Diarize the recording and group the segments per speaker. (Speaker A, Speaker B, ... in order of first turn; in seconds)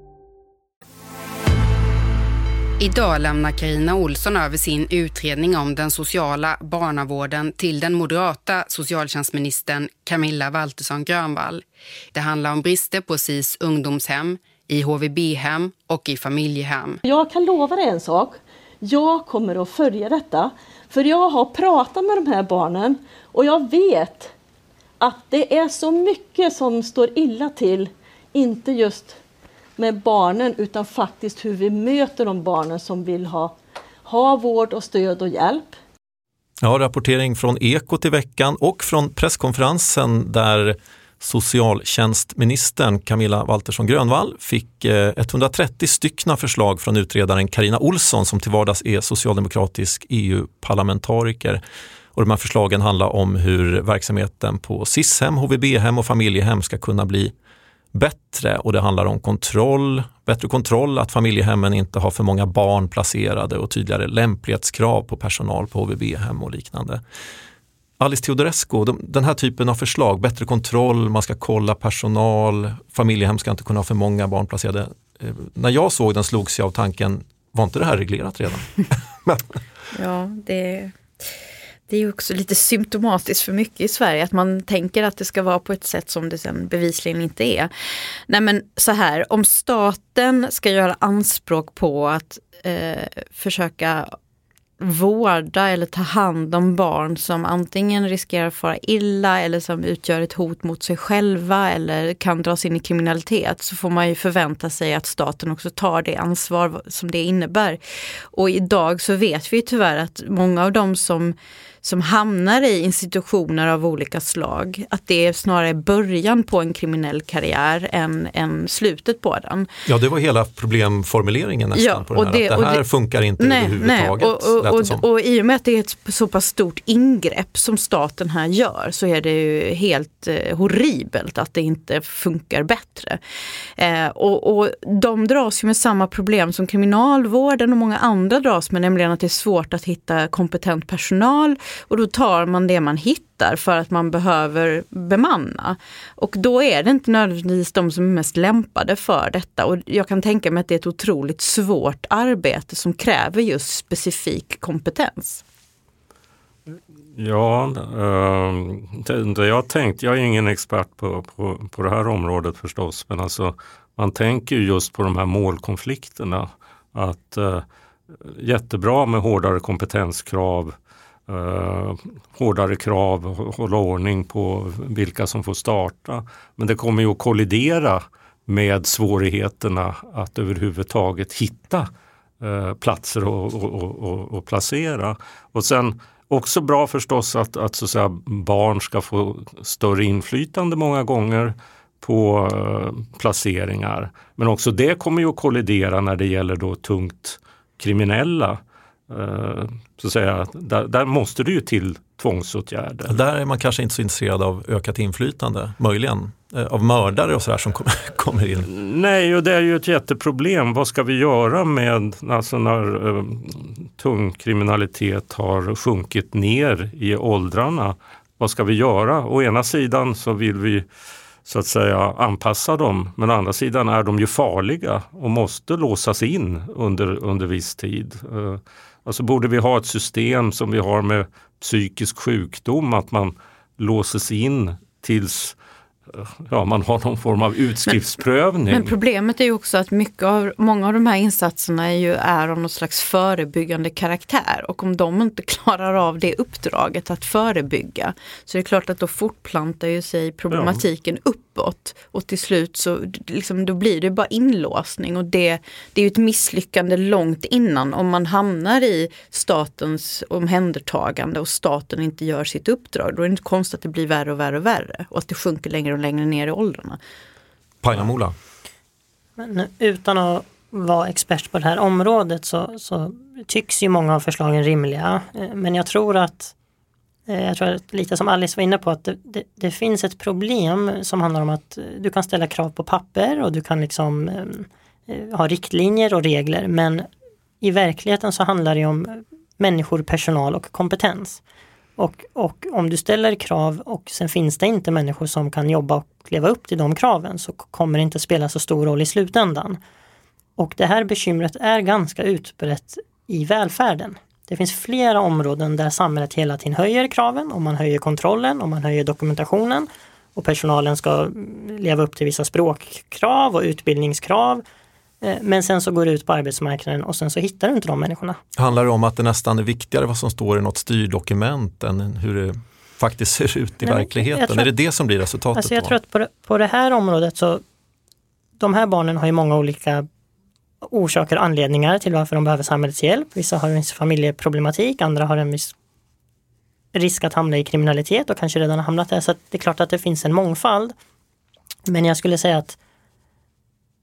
Speaker A: 2.8-17.0
Speaker B: 17.0-24.3, 25.0-29.2, 29.8-33.5, 34.0-35.8
Speaker C: 36.6-51.6, 52.1-57.3, 57.9-67.0, 68.0-79.5, 119.9-125.0, 203.1-208.7, 267.8-268.4, 318.6-325.9
Speaker D: 79.9-81.3, 81.9-87.7, 88.3-94.1, 94.8-107.8, 108.3-119.7, 121.8-122.8, 123.4-133.2, 133.8-155.4, 238.7-267.0
Speaker E: 157.2-167.6, 168.2-170.8, 171.3-181.9, 182.4-203.2, 208.7-220.8, 221.4-235.6, 236.1-238.9, 250.5-250.8
Speaker F: 269.4-276.5, 277.3-287.1, 287.6-291.4, 292.0-299.8, 300.6-314.6, 315.2-318.4, 323.8-324.7, 325.6-327.6, 328.6-330.1, 330.8-335.8, 336.9-340.9, 341.9-342.8